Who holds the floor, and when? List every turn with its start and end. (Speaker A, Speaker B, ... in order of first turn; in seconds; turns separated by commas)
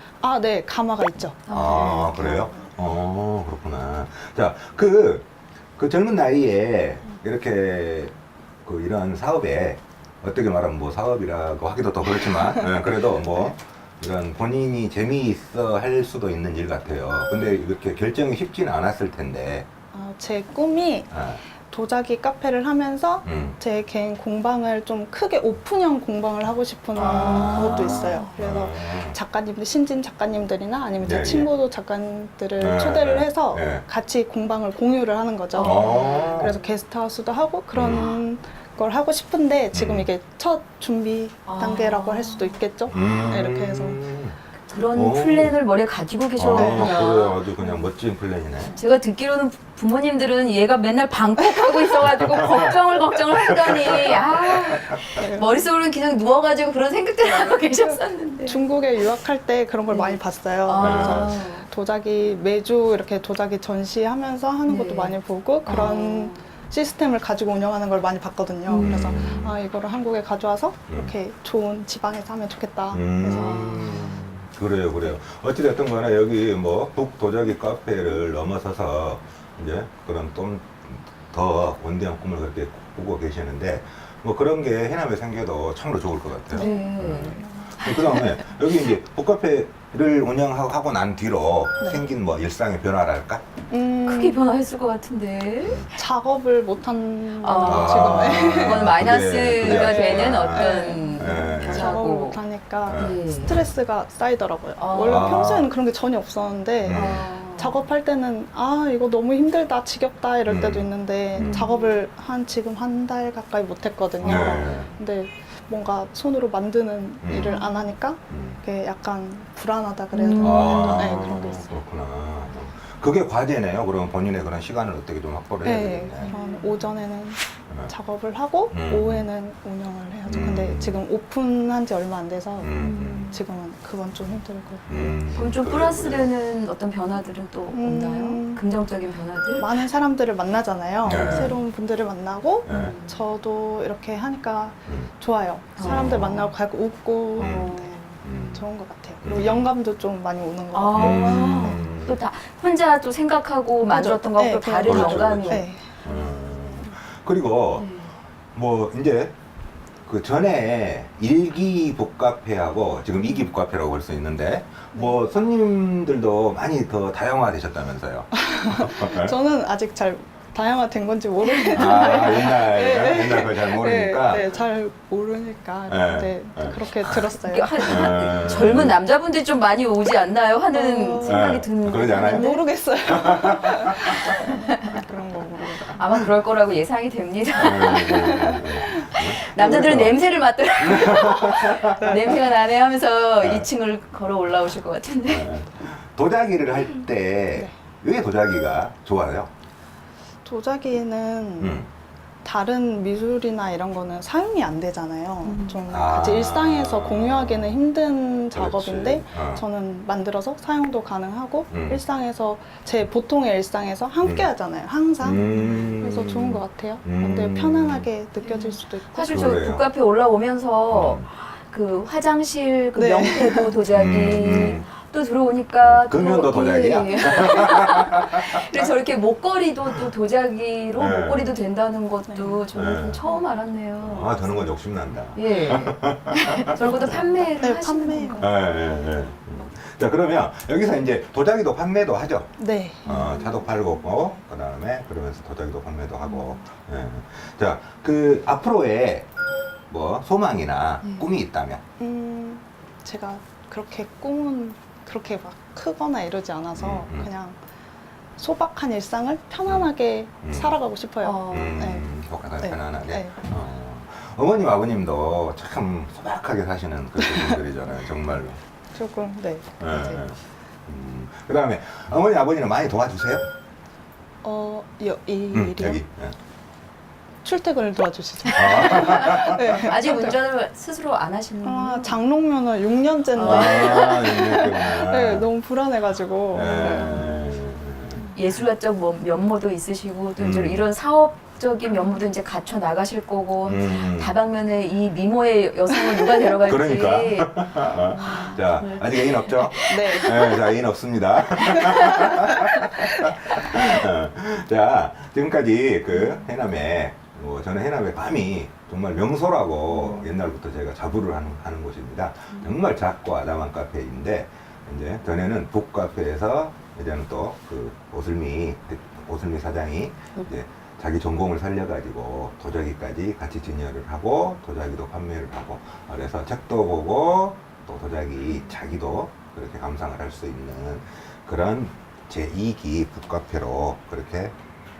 Speaker A: 0.2-2.5, Speaker B: 1.4-2.5, Speaker C: 1.5-19.7, Speaker A: 19.9-44.0, Speaker C: 21.1-21.4, Speaker C: 23.2-23.6, Speaker C: 26.9-29.2, Speaker B: 27.0-28.4, Speaker C: 31.0-31.5, Speaker C: 32.6-33.8, Speaker B: 35.5-36.7, Speaker C: 35.6-36.5, Speaker C: 37.7-38.1, Speaker B: 37.8-38.2, Speaker C: 39.7-40.1, Speaker B: 41.5-43.4, Speaker C: 42.9-44.4, Speaker B: 44.7-47.9, Speaker C: 44.9-45.5, Speaker C: 46.4-48.8, Speaker A: 46.5-47.0, Speaker B: 48.7-58.6, Speaker C: 52.0-52.7, Speaker C: 53.4-55.0, Speaker A: 55.2-55.5, Speaker A: 57.8-73.8, Speaker B: 59.9-61.7, Speaker C: 60.8-61.4, Speaker B: 64.6-66.4, Speaker C: 65.7-65.9, Speaker B: 68.7-69.3, Speaker C: 68.8-69.5, Speaker C: 72.9-93.4, Speaker B: 73.3-74.2, Speaker B: 86.5-88.4, Speaker A: 86.5-86.9, Speaker A: 93.7-94.4, Speaker B: 94.0-95.9, Speaker C: 95.6-95.9, Speaker A: 95.9-99.0, Speaker B: 97.4-103.6, Speaker C: 97.6-102.0, Speaker A: 99.6-121.7, Speaker C: 102.8-103.2, Speaker B: 104.8-105.5, Speaker C: 105.0-105.7, Speaker C: 106.8-107.2, Speaker B: 106.9-107.8, Speaker C: 110.5-111.7, Speaker B: 111.4-111.9, Speaker B: 114.2-114.6, Speaker C: 114.2-114.9, Speaker C: 117.2-117.6, Speaker B: 117.4-117.8, Speaker C: 118.3-118.6, Speaker B: 120.1-121.6, Speaker C: 120.4-126.3, Speaker A: 125.6-135.2, Speaker B: 126.2-126.9, Speaker C: 128.7-129.2, Speaker C: 130.2-131.0, Speaker C: 132.6-133.3, Speaker B: 132.7-133.4, Speaker C: 134.9-136.3, Speaker B: 135.3-139.7, Speaker A: 137.7-138.6, Speaker A: 139.6-151.8, Speaker C: 141.0-141.6, Speaker B: 141.1-141.6, Speaker C: 142.6-143.0, Speaker B: 142.7-143.2, Speaker B: 145.8-146.3, Speaker C: 145.8-146.5, Speaker B: 147.4-148.2, Speaker C: 147.4-148.6, Speaker C: 149.2-149.7, Speaker B: 150.7-156.2, Speaker C: 150.9-152.2, Speaker A: 153.9-155.9, Speaker C: 154.8-157.9, Speaker B: 157.8-158.1, Speaker C: 158.5-159.4, Speaker C: 160.1-169.3, Speaker A: 168.4-178.2, Speaker B: 171.4-172.6, Speaker C: 171.7-174.5, Speaker C: 175.9-177.2, Speaker B: 177.0-182.6, Speaker C: 177.8-179.0, Speaker A: 180.7-181.5, Speaker C: 181.2-184.5, Speaker A: 182.1-186.0, Speaker B: 183.9-185.0, Speaker B: 185.9-195.5, Speaker C: 187.6-190.2, Speaker A: 188.1-188.6, Speaker C: 190.8-192.2, Speaker A: 192.0-192.3, Speaker C: 193.4-193.7, Speaker C: 195.3-199.5, Speaker A: 200.4-201.8, Speaker C: 201.6-201.9, Speaker A: 202.4-219.6, Speaker B: 205.4-205.9, Speaker C: 205.9-207.8, Speaker C: 208.5-209.6, Speaker C: 211.7-212.0, Speaker C: 215.2-218.1, Speaker B: 215.4-215.9, Speaker B: 218.4-234.5, Speaker C: 219.3-219.8, Speaker C: 220.9-221.3, Speaker A: 222.9-223.7, Speaker C: 223.9-224.8, Speaker C: 225.8-228.8, Speaker C: 230.9-231.5, Speaker A: 232.3-232.6, Speaker C: 232.7-233.2, Speaker C: 234.0-237.1, Speaker B: 235.3-238.6, Speaker A: 237.1-238.5, Speaker C: 238.4-249.3, Speaker A: 242.6-243.1, Speaker B: 243.0-243.6, Speaker C: 249.9-251.8, Speaker B: 251.0-251.3, Speaker A: 252.0-257.6, Speaker C: 256.7-257.3, Speaker A: 258.4-262.1, Speaker C: 260.4-260.8, Speaker B: 261.2-261.9, Speaker C: 261.5-268.6, Speaker A: 262.6-263.4, Speaker A: 268.9-270.2, Speaker C: 269.8-273.4, Speaker A: 274.4-276.0, Speaker C: 275.5-276.4, Speaker A: 277.4-280.4, Speaker C: 278.5-279.9, Speaker B: 278.9-282.1, Speaker A: 281.6-287.3, Speaker B: 283.3-284.7, Speaker C: 283.4-285.5, Speaker C: 286.5-288.2, Speaker B: 286.6-287.4, Speaker B: 288.3-300.6, Speaker C: 290.4-290.8, Speaker C: 293.6-294.3, Speaker C: 296.6-334.6, Speaker A: 299.8-300.5, Speaker A: 301.7-302.7, Speaker B: 309.9-310.2